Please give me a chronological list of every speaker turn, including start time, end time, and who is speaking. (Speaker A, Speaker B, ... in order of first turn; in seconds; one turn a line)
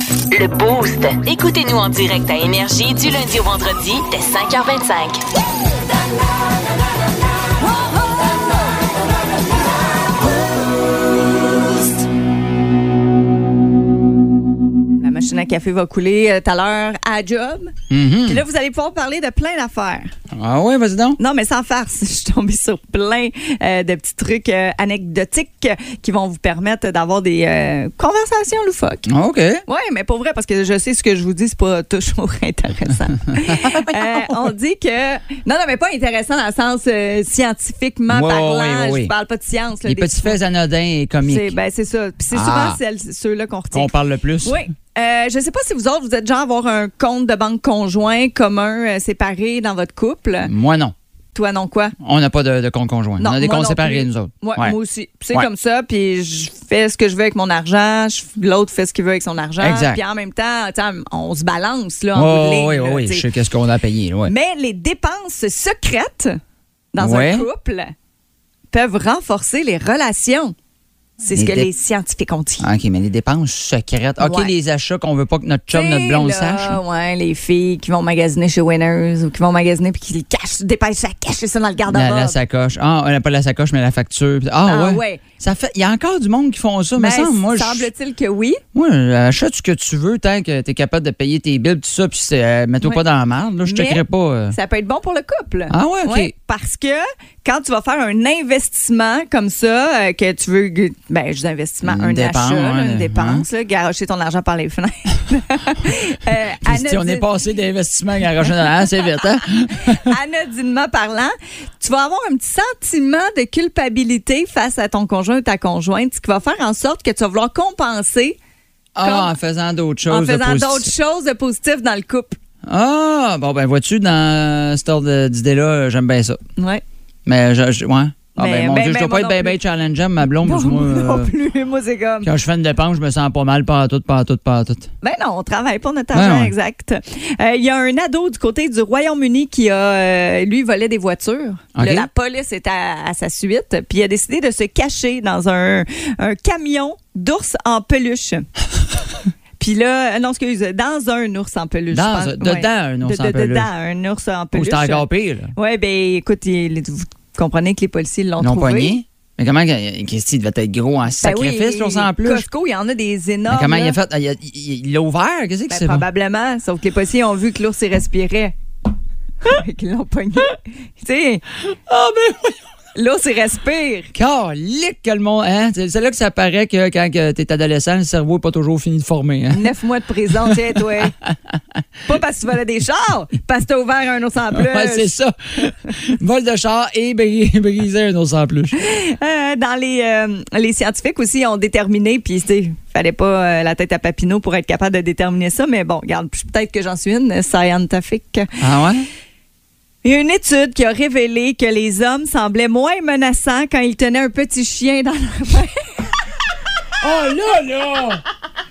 Speaker A: 0.3-5.2
Speaker B: 15.0-20.1
Speaker C: 17.9-18.4
Speaker C: 20.3-21.2
Speaker B: 21.2-29.1
Speaker C: 29.1-29.6
Speaker B: 29.7-40.4
Speaker C: 33.4-34.4
Speaker C: 38.1-39.1
Speaker C: 39.9-41.5
Speaker B: 41.2-43.9
Speaker C: 42.3-42.8
Speaker C: 43.7-44.6
Speaker B: 44.4-50.5
Speaker C: 50.5-51.0
Speaker B: 51.3-52.0
Speaker C: 52.0-54.8
Speaker B: 53.2-63.3
Speaker C: 59.6-60.0
Speaker C: 62.1-64.3
Speaker B: 64.3-66.4
Speaker B: 66.9-67.9
Speaker C: 67.0-67.5
Speaker B: 68.7-70.5
Speaker B: 71.2-72.7
Speaker C: 71.3-71.7
Speaker C: 72.6-76.8
Speaker B: 74.2-74.5
Speaker B: 75.7-82.4
Speaker C: 81.9-87.9
Speaker B: 84.7-85.2
Speaker B: 87.0-88.6
Speaker C: 88.7-94.5
Speaker B: 93.7-107.3
Speaker C: 95.7-96.3
Speaker C: 101.8-103.5
Speaker C: 106.6-110.2
Speaker B: 109.8-118.4
Speaker C: 119.0-120.9
Speaker B: 119.0-119.3
Speaker B: 120.1-122.4
Speaker C: 122.7-126.4
Speaker B: 126.6-126.8
Speaker C: 127.3-131.3
Speaker B: 128.4-129.6
Speaker B: 130.4-132.3
Speaker C: 132.2-134.9
Speaker B: 135.0-148.5
Speaker C: 136.1-136.5
Speaker C: 141.8-142.1
Speaker B: 149.6-159.0
Speaker C: 151.9-153.7
Speaker C: 154.5-155.5
Speaker C: 158.4-162.5
Speaker B: 161.2-164.0
Speaker C: 163.5-166.1
Speaker B: 165.7-168.6
Speaker B: 169.4-171.4
Speaker C: 171.9-172.6
Speaker B: 172.9-174.1
Speaker C: 174.1-179.7
Speaker B: 179.5-181.2
Speaker C: 180.5-181.6
Speaker B: 182.1-185.1
Speaker C: 184.5-188.8
Speaker B: 188.8-198.5
Speaker C: 198.6-199.1
Speaker B: 200.0-205.8
Speaker C: 207.0-208.2